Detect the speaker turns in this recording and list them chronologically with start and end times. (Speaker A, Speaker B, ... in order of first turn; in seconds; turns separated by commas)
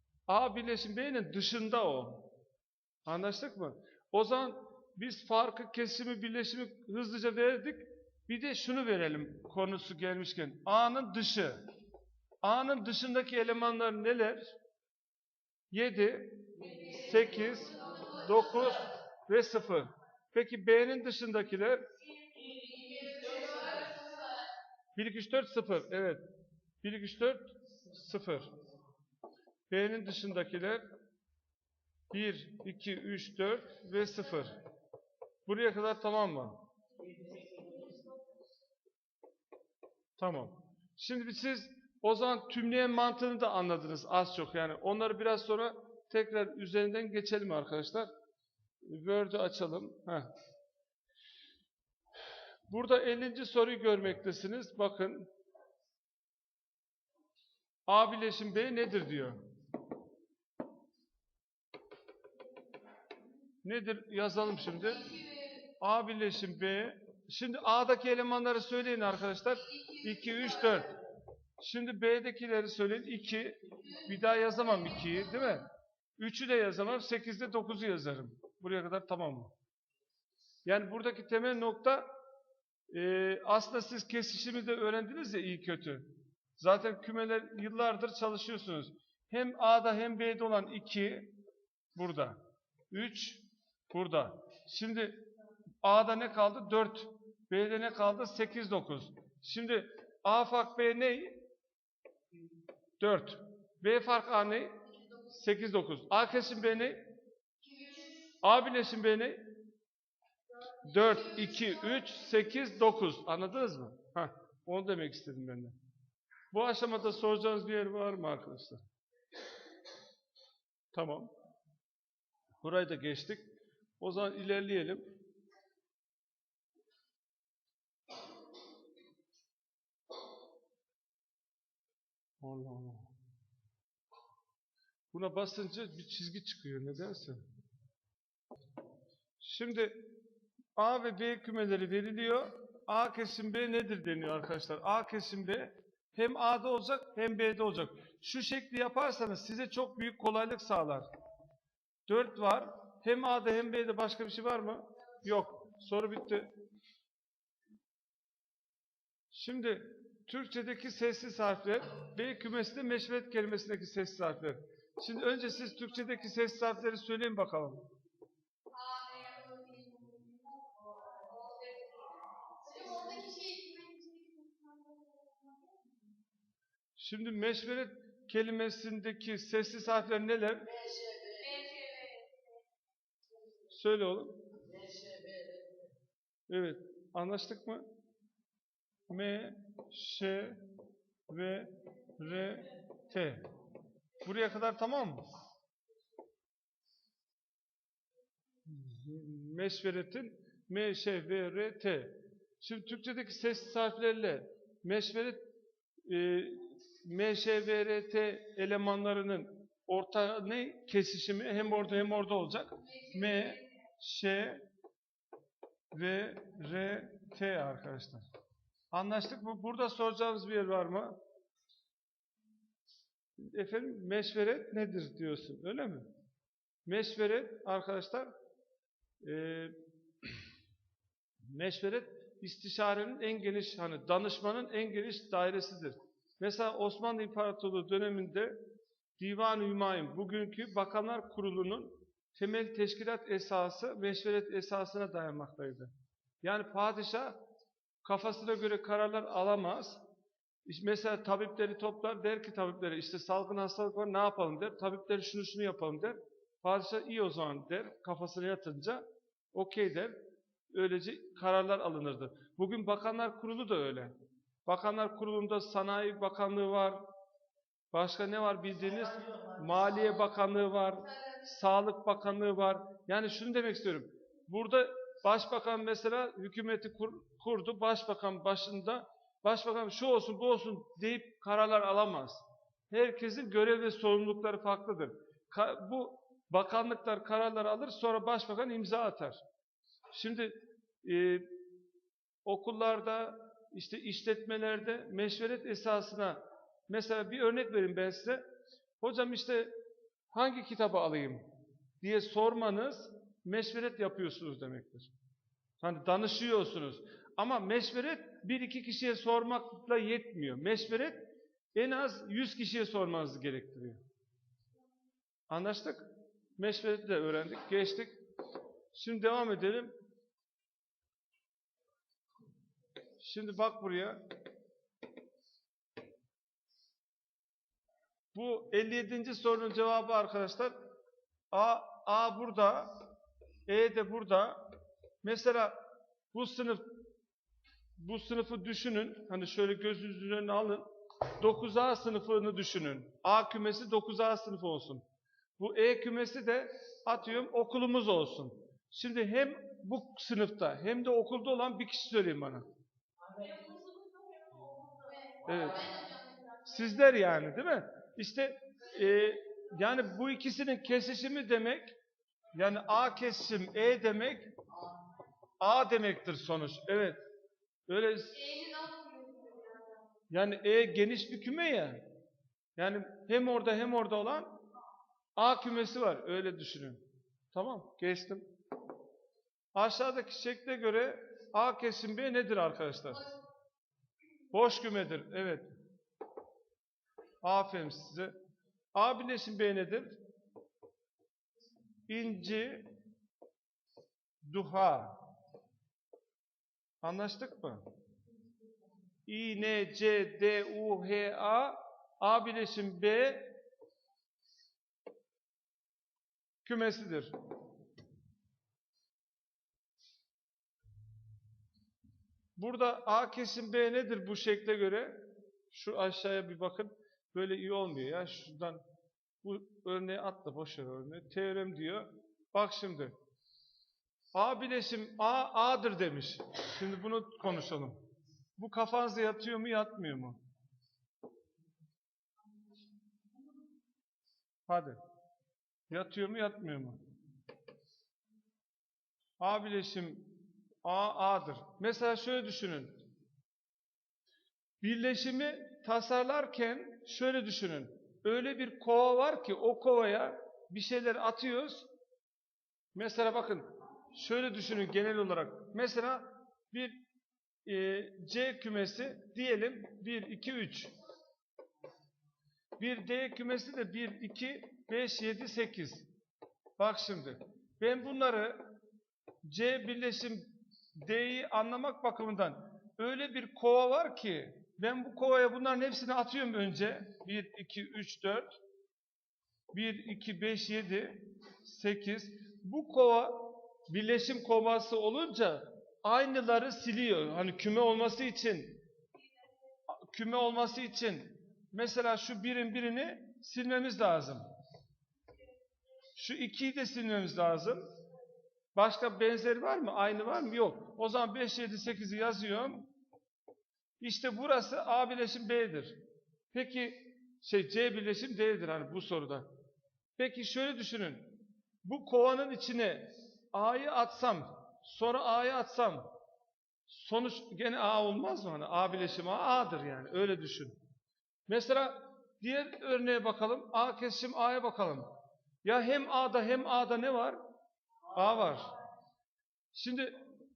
Speaker A: 0.3-2.3, Speaker A: 3.0-11.6, Speaker A: 12.4-14.5, Speaker A: 15.7-21.8, Speaker B: 16.6-17.1, Speaker B: 17.7-18.4, Speaker B: 22.1-24.5, Speaker A: 24.9-26.2, Speaker A: 26.8-28.5, Speaker A: 29.7-30.8, Speaker A: 32.1-34.5, Speaker A: 35.5-36.6, Speaker A: 40.2-48.1, Speaker A: 48.8-50.3, Speaker A: 52.7-55.3, Speaker A: 57.9-59.4, Speaker A: 63.6-65.1, Speaker B: 64.8-65.6, Speaker A: 65.8-70.9, Speaker B: 69.7-70.9, Speaker A: 71.6-75.7, Speaker B: 73.8-74.1, Speaker A: 76.2-79.5, Speaker A: 80.7-82.0, Speaker A: 82.9-86.1, Speaker A: 86.6-91.3, Speaker A: 91.9-92.4, Speaker A: 92.9-95.2, Speaker A: 95.8-101.4, Speaker A: 103.0-107.0, Speaker B: 107.6-108.3, Speaker A: 108.4-109.4, Speaker A: 110.8-115.7, Speaker A: 116.5-118.8, Speaker A: 120.9-121.3, Speaker A: 122.6-125.0, Speaker A: 132.4-133.1, Speaker A: 135.1-137.4, Speaker A: 139.4-140.0, Speaker A: 140.8-151.1, Speaker A: 152.1-156.5, Speaker A: 159.3-167.8, Speaker B: 168.7-175.9, Speaker A: 176.9-180.8, Speaker B: 181.1-182.3, Speaker A: 183.7-184.4, Speaker A: 186.5-187.8, Speaker A: 189.1-190.6, Speaker A: 191.3-193.4, Speaker A: 194.2-195.3, Speaker A: 198.6-205.4, Speaker A: 206.1-214.6, Speaker B: 213.0-213.5, Speaker A: 215.9-218.2, Speaker A: 218.9-221.2, Speaker A: 223.4-226.1, Speaker A: 226.8-228.3, Speaker A: 229.2-230.3, Speaker A: 231.4-238.5, Speaker A: 239.2-245.9, Speaker A: 246.4-247.4, Speaker A: 248.0-250.0, Speaker A: 250.7-260.1, Speaker A: 260.7-264.1, Speaker A: 264.6-267.0, Speaker A: 267.9-289.4, Speaker B: 271.1-271.4, Speaker A: 290.1-291.5, Speaker A: 292.4-298.4, Speaker A: 299.0-299.7, Speaker A: 300.3-301.4, Speaker A: 302.0-305.1, Speaker A: 305.8-311.2, Speaker A: 311.7-314.0, Speaker A: 315.5-316.1, Speaker A: 316.6-318.2, Speaker A: 318.9-319.9, Speaker A: 323.2-324.2, Speaker A: 328.3-330.7, Speaker A: 331.5-333.0, Speaker A: 333.7-334.6, Speaker A: 335.2-335.8, Speaker A: 336.3-336.9, Speaker A: 338.0-345.0, Speaker A: 345.6-352.6, Speaker B: 353.3-356.9, Speaker A: 355.4-355.9, Speaker A: 356.6-361.9, Speaker A: 362.5-364.5, Speaker A: 365.6-367.2, Speaker A: 367.9-368.4, Speaker B: 368.3-370.0, Speaker A: 370.3-372.0, Speaker A: 372.8-374.5, Speaker A: 375.4-378.4, Speaker A: 379.7-383.3, Speaker A: 384.5-385.7, Speaker A: 387.4-388.3, Speaker A: 388.9-390.1, Speaker A: 392.1-392.9, Speaker A: 394.4-395.2, Speaker A: 397.0-397.8, Speaker A: 399.3-403.5, Speaker A: 406.6-407.3, Speaker A: 412.6-415.1, Speaker A: 415.7-418.8, Speaker A: 419.4-423.1, Speaker A: 424.3-428.0, Speaker A: 428.6-430.4, Speaker A: 434.7-435.0, Speaker A: 435.9-437.0, Speaker A: 439.4-443.0, Speaker A: 444.8-451.9, Speaker A: 452.9-457.0, Speaker A: 457.6-460.9, Speaker A: 462.8-466.1, Speaker A: 466.8-468.6, Speaker A: 469.4-478.5, Speaker A: 479.7-488.8, Speaker A: 489.9-494.4, Speaker A: 496.1-497.8, Speaker A: 498.8-502.9, Speaker A: 504.0-506.0, Speaker A: 506.5-509.5, Speaker A: 510.2-516.1, Speaker A: 516.9-520.8, Speaker A: 521.5-525.1, Speaker A: 525.6-527.4, Speaker A: 528.1-528.7, Speaker A: 529.7-530.2